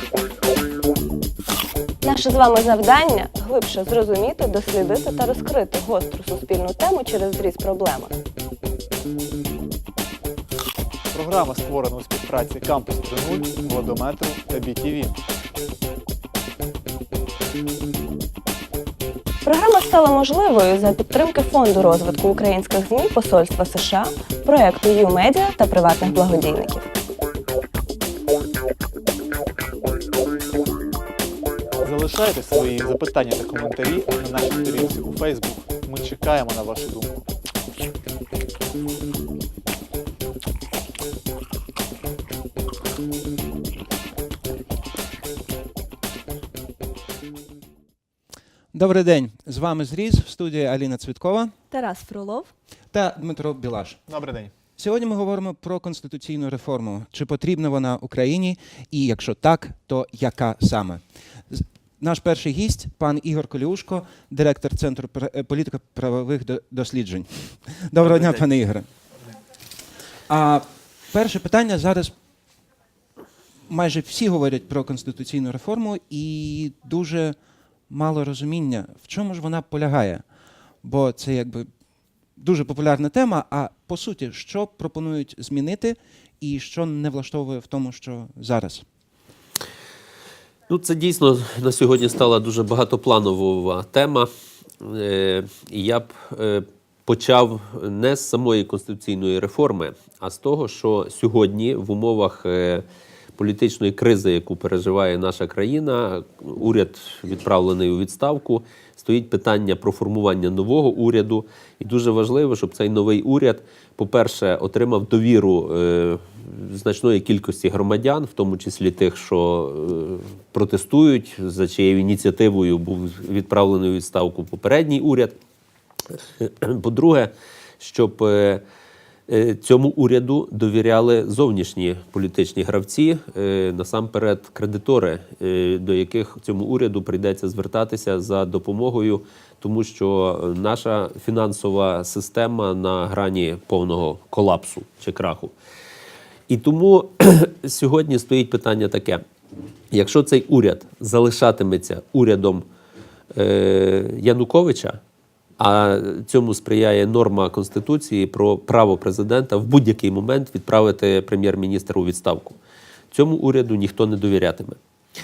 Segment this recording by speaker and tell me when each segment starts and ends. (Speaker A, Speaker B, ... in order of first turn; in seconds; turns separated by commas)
Speaker A: 2.0-8.2, Speaker B: 11.1-15.2, Speaker A: 19.4-26.9, Speaker B: 31.8-37.2, Speaker C: 48.7-51.5, Speaker A: 51.7-52.5, Speaker C: 52.9-54.0, Speaker B: 54.1-54.5, Speaker C: 54.8-68.9, Speaker C: 70.3-72.1, Speaker C: 73.7-77.3, Speaker C: 77.9-80.2, Speaker C: 80.8-81.7, Speaker C: 82.3-88.8, Speaker D: 90.7-102.8, Speaker D: 103.4-125.4, Speaker D: 126.1-128.6, Speaker D: 129.3-145.5, Speaker D: 146.5-149.2, Speaker D: 149.9-152.7, Speaker D: 153.3-155.0, Speaker D: 155.6-162.6, Speaker D: 163.1-164.8